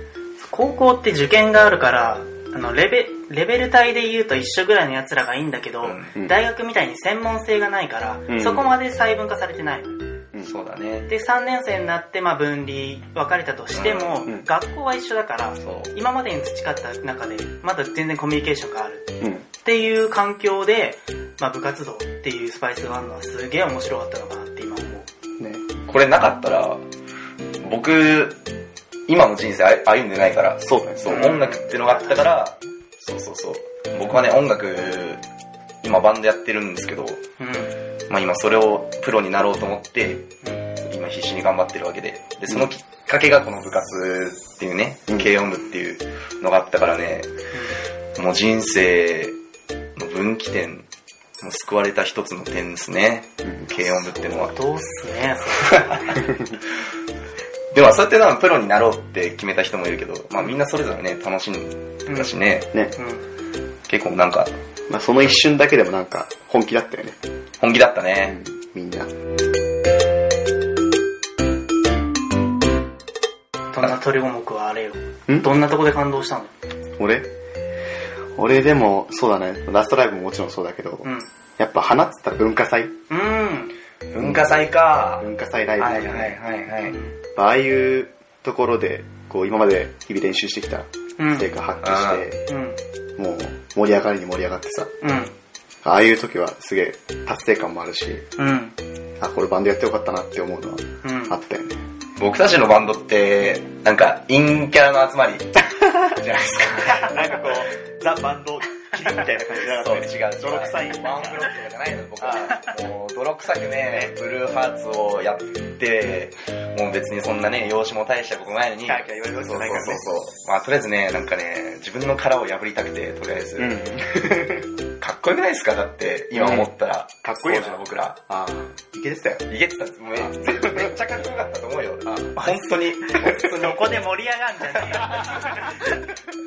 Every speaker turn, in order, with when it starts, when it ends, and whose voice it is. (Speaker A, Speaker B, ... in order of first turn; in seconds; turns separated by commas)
Speaker A: 0.4-10.0, Speaker B: 5.8-6.2, Speaker C: 8.3-8.7, Speaker B: 10.4-11.1, Speaker A: 11.1-25.1, Speaker B: 13.7-14.3, Speaker B: 15.6-15.9, Speaker C: 25.4-25.7, Speaker B: 25.9-26.8, Speaker B: 27.6-28.4, Speaker B: 29.1-35.2, Speaker C: 30.6-31.3, Speaker A: 31.1-32.3, Speaker B: 35.8-37.2, Speaker A: 37.4-37.7, Speaker B: 38.1-47.3, Speaker B: 48.1-49.4, Speaker B: 50.0-50.9, Speaker B: 51.4-54.5, Speaker C: 53.4-53.7, Speaker A: 54.0-56.2, Speaker B: 55.6-56.2, Speaker B: 57.7-62.7, Speaker A: 62.1-62.3, Speaker A: 63.0-63.2, Speaker B: 63.9-64.5, Speaker C: 64.9-67.2, Speaker B: 67.6-68.4, Speaker C: 68.2-69.1, Speaker A: 73.7-76.5, Speaker C: 77.0-77.3, Speaker C: 78.3-82.9, Speaker A: 83.1-83.7, Speaker B: 84.1-85.2, Speaker C: 84.2-84.6, Speaker C: 85.2-86.4, Speaker B: 85.8-87.0, Speaker A: 86.9-87.1, Speaker C: 87.3-92.4, Speaker A: 91.2-91.5, Speaker B: 91.8-92.2, Speaker A: 92.5-92.8, Speaker C: 93.2-94.9, Speaker A: 95.0-95.3, Speaker C: 95.8-98.2, Speaker A: 98.4-98.7, Speaker C: 99.2-101.8, Speaker A: 101.0-101.3, Speaker B: 102.2-107.6, Speaker C: 106.8-111.5, Speaker B: 109.7-123.8, Speaker C: 112.2-112.6, Speaker C: 118.8-120.0, Speaker C: 123.6-124.7, Speaker B: 125.0-128.2, Speaker C: 126.3-126.7, Speaker C: 127.2-129.5, Speaker B: 129.5-133.9, Speaker C: 130.1-130.9, Speaker C: 132.0-132.3, Speaker A: 132.3-136.0